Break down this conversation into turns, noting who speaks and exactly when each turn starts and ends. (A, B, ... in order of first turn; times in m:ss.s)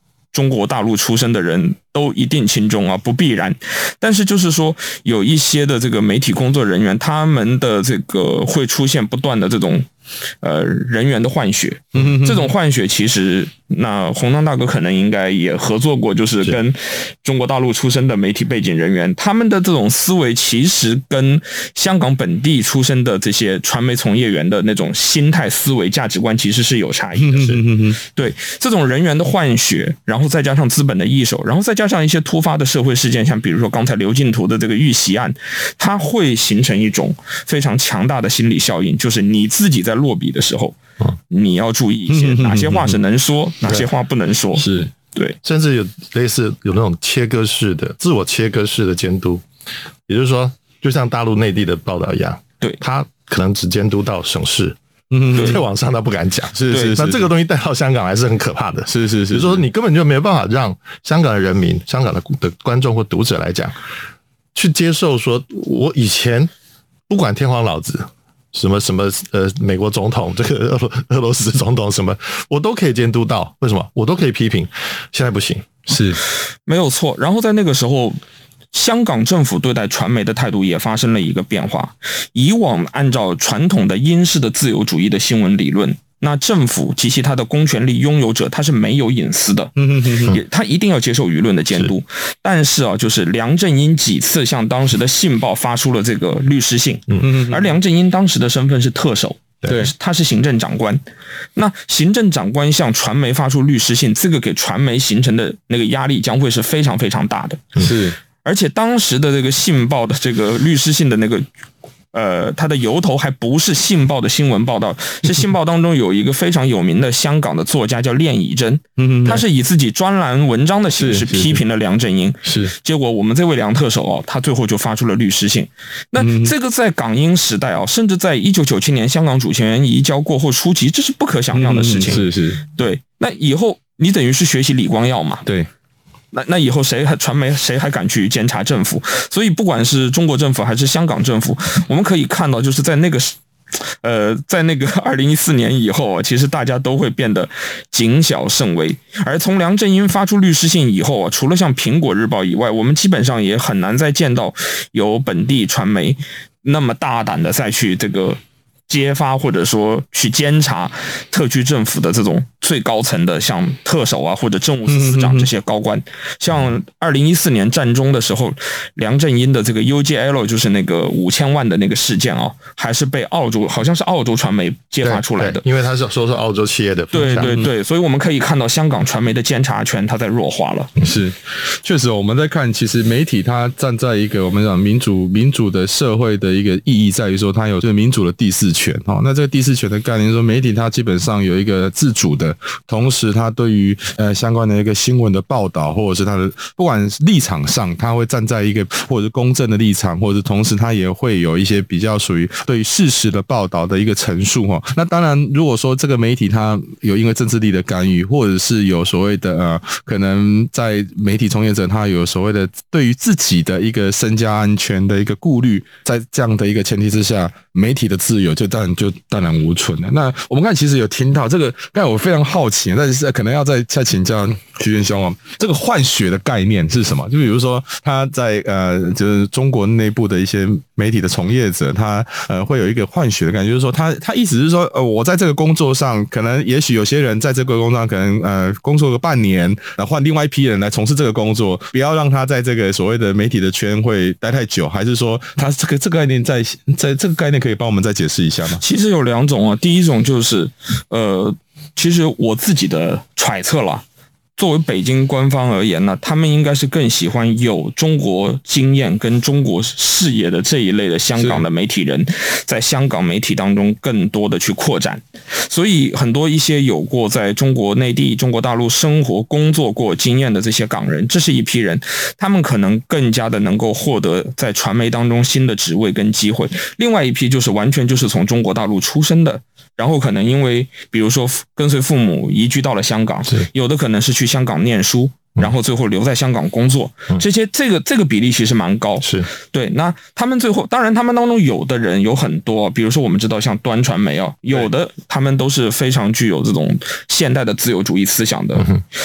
0:00.3-0:09.9 A
0:10.4-0:27.6 A
0:11.9-0:12.5 B
0:27.2-0:28.0 B
0:28.1-0:40.7 A
0:41.3-0:44.6 A
0:42.1-0:43.0 B
0:44.6-0:44.9 B
0:45.4-0:49.4 C
0:50.1-0:54.8 C
0:55.1-0:55.6 B
0:55.3-1:03.7 C
0:56.5-0:57.3 B
0:58.9-0:59.6 B
1:04.5-1:06.5 C
1:07.1-1:15.7 C
1:15.9-1:16.2 B
1:16.7-1:18.2 A
1:18.7-1:29.7 A
1:29.8-1:30.4 B
1:30.2-1:41.0 A
1:37.2-1:37.7 B
1:39.6-1:39.9 C
1:41.6-1:47.6 A
1:47.8-1:48.2 B
1:48.4-1:51.5 A
1:52.1-2:15.4 A
1:59.0-1:59.4 B
2:01.0-2:01.6 B
2:02.4-2:02.7 B
2:06.2-2:06.5 B
2:11.5-2:12.6 B
2:16.3-2:23.4 A
2:24.0-2:55.6 A
2:44.9-2:45.5 B
2:55.0-2:57.6 C
2:57.1-3:00.9 A
3:01.0-4:08.8 B
4:08.8-4:14.0 A
4:14.6-4:58.9 A
4:21.4-4:21.6 B
4:49.2-4:49.5 C
4:58.8-4:59.0 C